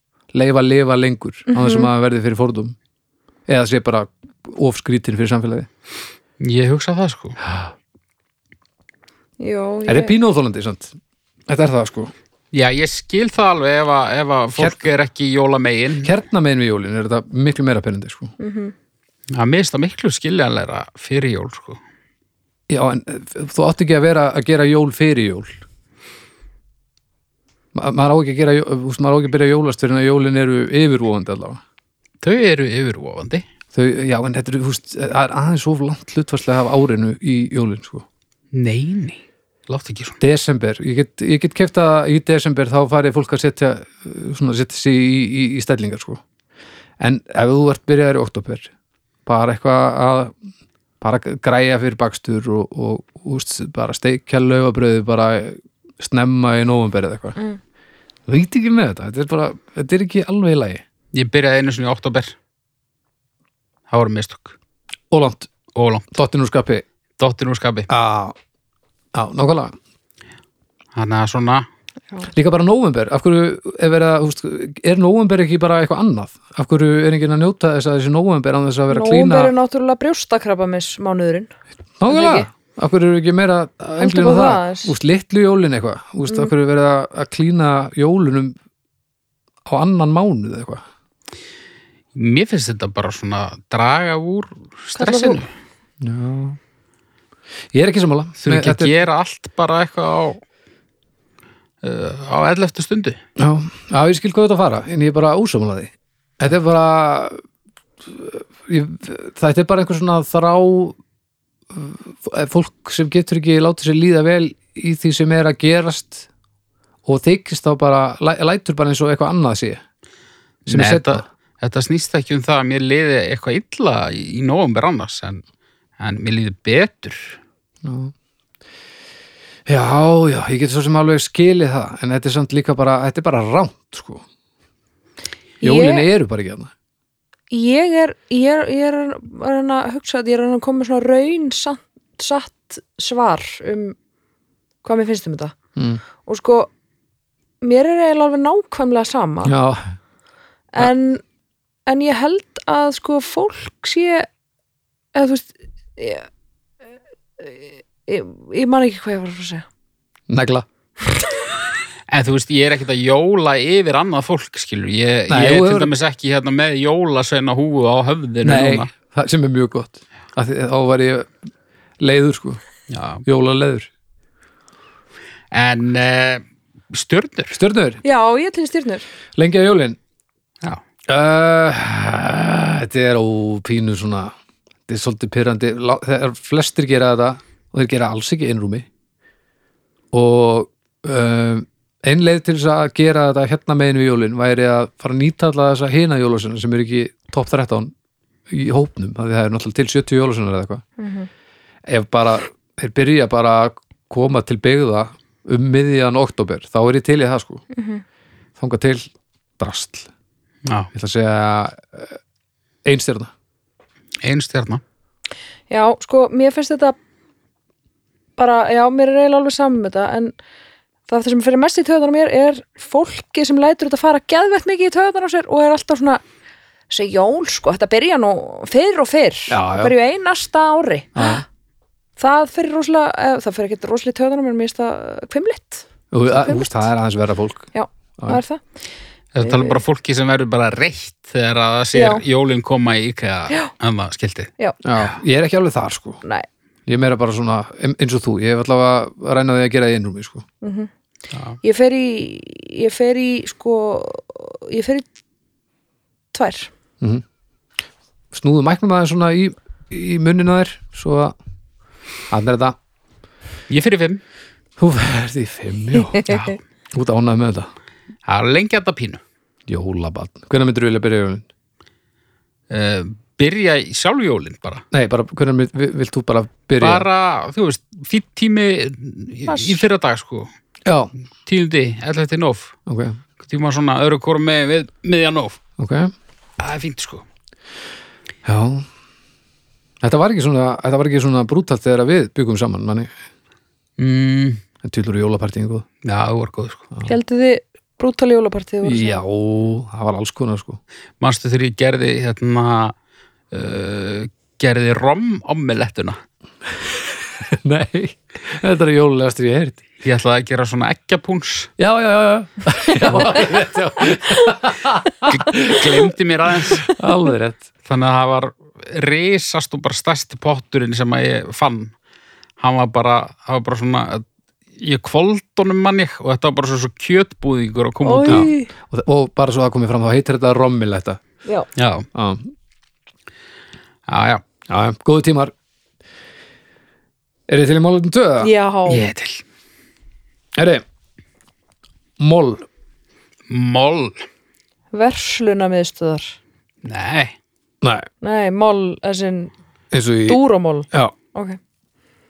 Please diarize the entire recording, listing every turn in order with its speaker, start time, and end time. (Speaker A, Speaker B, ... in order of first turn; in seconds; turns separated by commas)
Speaker A: 0.3-2.8, Speaker B: 1.5-1.9, Speaker A: 3.5-5.7, Speaker C: 6.4-7.4, Speaker A: 7.4-7.7, Speaker B: 9.4-10.1, Speaker A: 9.9-10.9, Speaker A: 11.5-12.1, Speaker C: 12.5-16.1, Speaker A: 16.0-18.3, Speaker B: 18.4-18.7, Speaker C: 19.3-21.8, Speaker A: 22.7-25.5, Speaker A: 27.7-31.6, Speaker C: 32.2-33.4, Speaker A: 33.7-38.0, Speaker C: 38.5-40.2, Speaker A: 40.2-46.2, Speaker A: 47.0-48.7, Speaker A: 49.2-50.3, Speaker A: 51.0-57.4, Speaker A: 58.2-60.8, Speaker C: 61.1-62.3, Speaker C: 63.9-64.5, Speaker A: 65.1-65.5, Speaker C: 65.7-66.1, Speaker A: 66.1-66.8, Speaker C: 67.2-67.9, Speaker A: 67.9-68.3, Speaker A: 69.1-69.7, Speaker C: 70.9-71.7, Speaker A: 72.3-79.5, Speaker B: 78.9-81.5, Speaker A: 82.0-88.5, Speaker B: 82.1-82.5, Speaker B: 84.0-84.9, Speaker A: 89.7-90.8, Speaker C: 92.1-95.5, Speaker B: 95.0-95.4, Speaker A: 96.0-96.6, Speaker A: 97.7-98.9, Speaker C: 98.4-100.4, Speaker C: 101.8-103.2, Speaker A: 103.4-107.4, Speaker A: 108.0-111.0, Speaker A: 111.7-116.3, Speaker A: 117.0-119.8, Speaker C: 120.7-125.4, Speaker A: 120.7-121.2, Speaker C: 126.0-127.4, Speaker A: 127.8-128.1, Speaker A: 129.7-134.2, Speaker B: 135.6-136.1, Speaker A: 135.6-136.7, Speaker B: 137.5-143.9, Speaker B: 144.8-145.5, Speaker A: 145.8-146.0, Speaker B: 146.2-146.7, Speaker B: 147.6-149.5, Speaker A: 149.4-149.9, Speaker B: 150.7-151.2, Speaker B: 151.8-154.3, Speaker B: 155.1-156.3, Speaker B: 157.4-159.7, Speaker A: 160.3-160.7, Speaker C: 162.1-168.9, Speaker A: 165.3-165.9, Speaker A: 168.4-171.3, Speaker A: 172.0-172.6, Speaker C: 172.9-173.2, Speaker A: 173.2-173.9, Speaker C: 175.5-177.6, Speaker A: 177.5-178.0, Speaker B: 178.0-179.0, Speaker A: 179.3-180.0, Speaker A: 181.1-184.3, Speaker A: 184.9-188.9, Speaker A: 190.1-197.9, Speaker A: 198.5-200.8, Speaker B: 201.0-201.3, Speaker A: 201.9-207.6, Speaker B: 207.7-208.0, Speaker A: 208.6-210.1, Speaker A: 210.9-212.2, Speaker A: 212.8-213.3, Speaker C: 214.2-214.8, Speaker B: 215.7-216.9, Speaker B: 218.4-220.3, Speaker B: 221.1-226.2, Speaker B: 226.9-231.4, Speaker A: 229.5-229.9, Speaker A: 231.2-231.4, Speaker B: 232.2-236.8, Speaker A: 236.1-238.4, Speaker B: 237.7-238.6, Speaker C: 239.3-245.1, Speaker B: 239.4-239.8, Speaker B: 241.9-242.2, Speaker A: 244.8-246.2, Speaker A: 246.8-250.4, Speaker B: 250.6-250.9, Speaker C: 251.3-251.6, Speaker B: 251.6-255.1, Speaker B: 256.3-256.7, Speaker A: 258.3-261.3, Speaker A: 262.3-262.8, Speaker C: 263.7-264.2, Speaker A: 264.8-266.2, Speaker C: 266.2-266.6, Speaker A: 266.9-267.7, Speaker C: 268.2-269.2, Speaker A: 269.7-271.4, Speaker C: 272.7-274.8, Speaker A: 274.9-277.1, Speaker C: 276.8-280.5, Speaker A: 280.8-281.1, Speaker C: 281.4-282.7, Speaker A: 282.9-283.2, Speaker C: 283.4-285.6, Speaker A: 285.8-286.1, Speaker C: 286.6-287.2, Speaker A: 288.4-288.9, Speaker A: 290.0-293.1, Speaker C: 294.0-294.6, Speaker A: 294.8-295.9, Speaker C: 296.0-296.8, Speaker B: 297.1-299.2, Speaker A: 298.8-300.8, Speaker C: 301.2-302.9, Speaker C: 303.5-306.2, Speaker A: 307.4-309.8, Speaker C: 310.0-311.7, Speaker A: 311.8-315.9, Speaker C: 315.3-316.9, Speaker A: 316.9-317.7, Speaker C: 317.9-321.9, Speaker C: 322.6-324.2, Speaker C: 324.8-328.5, Speaker B: 328.0-328.7, Speaker A: 328.2-331.2, Speaker C: 331.8-332.1, Speaker A: 332.1-332.5, Speaker C: 334.1-334.4, Speaker A: 334.7-335.5, Speaker A: 337.5-338.5, Speaker B: 338.4-339.0, Speaker C: 338.9-339.4, Speaker A: 340.6-340.8, Speaker A: 342.2-342.6, Speaker C: 343.5-344.2, Speaker B: 344.9-346.4, Speaker C: 346.8-347.3, Speaker A: 347.8-348.1, Speaker B: 348.2-349.5, Speaker A: 349.9-350.4, Speaker B: 350.2-351.6